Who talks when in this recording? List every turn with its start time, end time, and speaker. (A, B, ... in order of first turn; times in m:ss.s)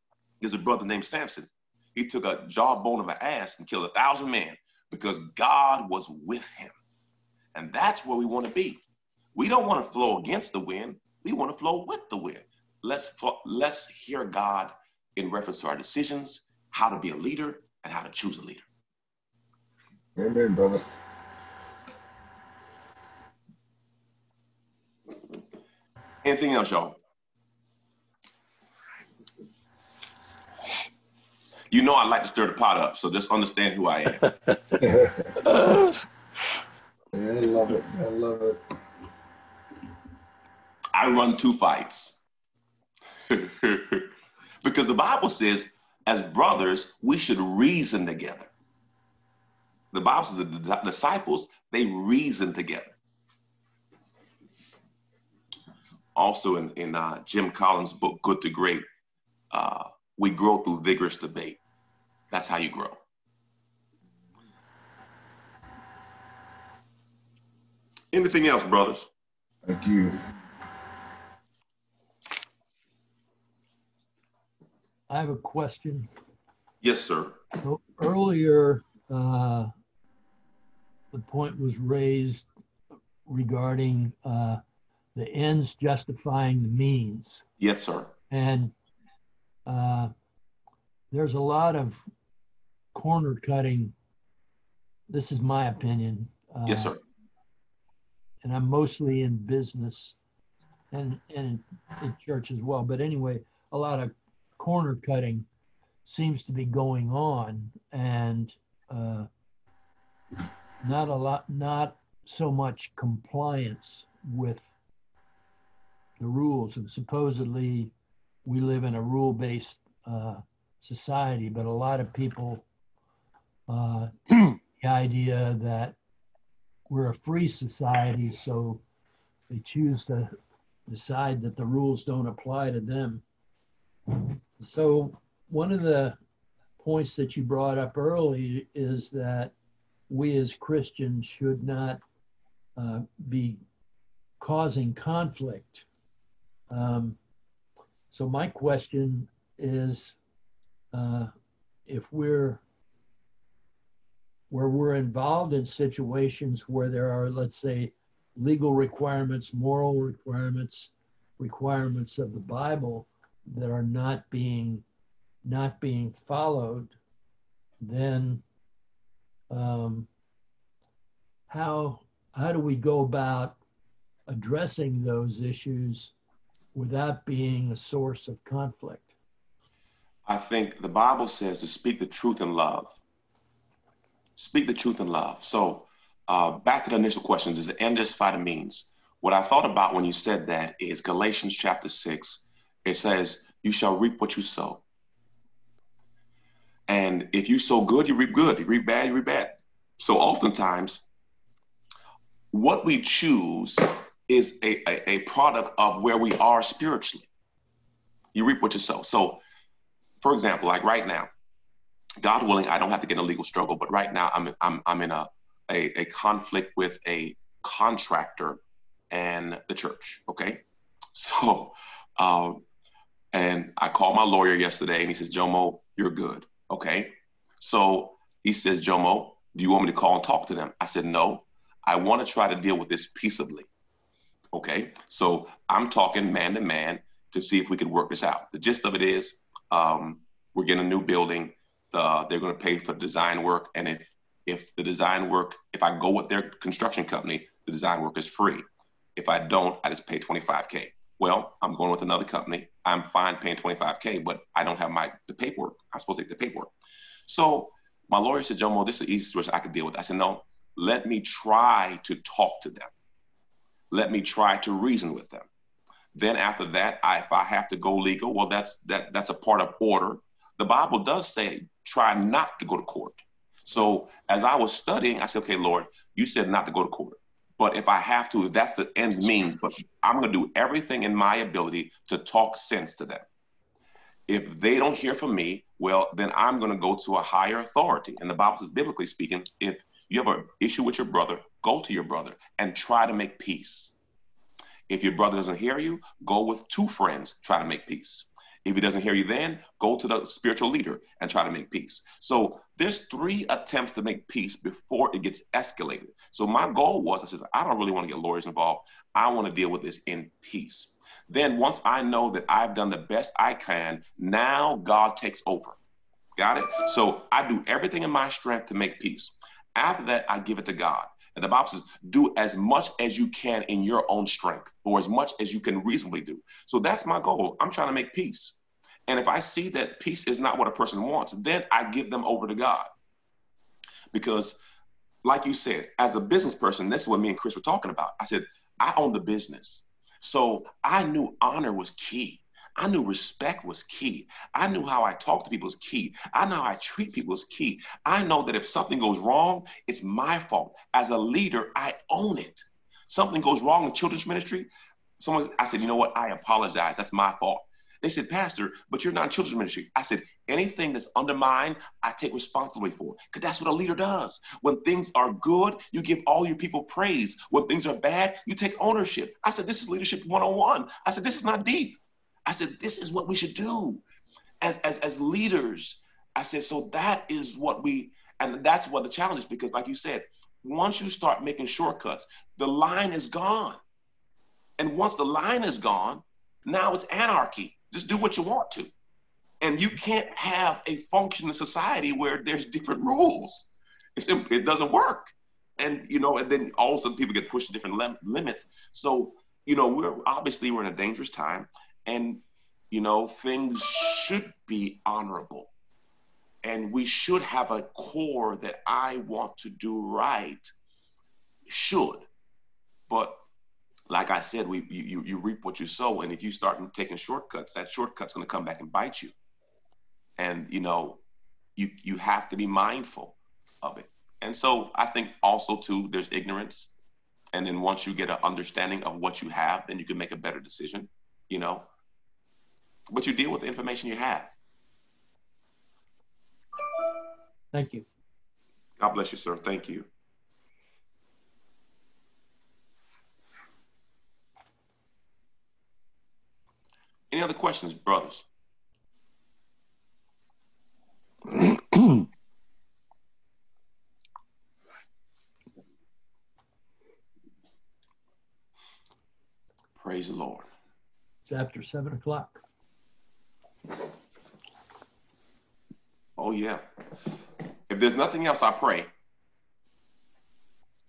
0:00.4-0:06.7 A
0:07.5-0:08.8 A
0:09.3-0:18.6 A
0:20.2-0:20.8 B
0:26.2-0:27.0 A
0:31.7-0:34.2 A
0:34.8-0:35.3 B
0:37.1-0:38.6 B
0:40.9-0:42.2 A
0:43.3-0:44.1 A
0:44.6-0:48.5 A
0:49.9-0:52.9 A
0:56.1-0:58.8 A
0:59.5-1:01.6 A
1:02.3-1:03.0 A
1:08.1-1:09.1 A
1:09.6-1:10.2 B
1:15.1-1:16.1 C
1:16.8-1:17.4 A
1:17.6-1:19.7 C
1:21.1-1:22.4 C
1:23.2-1:24.6 C
1:25.1-1:27.4 C
1:27.6-1:28.1 A
1:28.3-1:28.7 C
1:29.7-1:30.1 C
1:31.1-1:32.0 C
1:32.9-1:33.9 C
1:35.1-1:37.0 C
1:36.7-1:37.0 A
1:38.4-1:40.1 C
1:40.9-1:45.4 C
1:46.0-1:49.3 C
1:50.8-1:54.6 C
1:56.2-1:57.9 C
1:58.4-2:02.6 C
2:03.7-2:06.0 C
2:06.9-2:08.8 C
2:09.5-2:10.3 C
2:10.9-2:13.2 C
2:14.6-2:16.2 C
2:16.8-2:19.5 C
2:20.1-2:22.0 C
2:22.8-2:23.6 C
2:24.4-2:25.8 C
2:26.7-2:27.2 C
2:28.1-2:30.1 C
2:30.9-2:31.3 C
2:31.9-2:32.6 C
2:34.5-2:44.8 C
2:45.4-2:46.9 C
2:47.8-2:48.4 C
2:49.5-2:50.1 C
2:51.5-2:53.6 C
2:54.3-2:56.1 C
2:56.7-2:59.1 C
3:00.3-3:02.9 A
3:04.4-3:14.8 A
3:16.9-3:21.0 A
3:22.5-3:27.3 A
3:28.3-3:29.4 A
3:30.2-3:31.3 A
3:32.2-3:38.6 A
3:39.1-3:40.6 A
3:41.1-3:42.6 A
3:43.3-3:53.7 A
3:54.5-4:08.6 A
4:09.2-4:16.7 A
4:17.3-4:22.9 A
4:23.9-4:25.5 A
4:26.1-4:43.2 A
4:44.3-4:53.9 A
4:54.9-5:15.8 A
5:16.4-5:32.9 A
5:34.1-5:34.6 A
5:35.2-6:14.0 A
6:14.6-6:23.8 A
6:24.8-6:28.9 A
6:29.6-6:45.7 A
6:46.6-6:50.7 A
6:51.7-6:52.2 A
6:53.1-6:53.4 A
6:54.1-6:59.3 A
7:00.4-7:01.2 A
7:01.8-7:06.9 A
7:07.5-7:11.9 A
7:13.1-7:14.5 A
7:17.7-7:18.0 C
7:19.0-7:20.1 A
7:27.3-7:28.4 A
7:40.0-7:40.7 A
7:41.4-7:42.6 C
7:46.4-7:46.8 A
7:47.9-7:49.1 A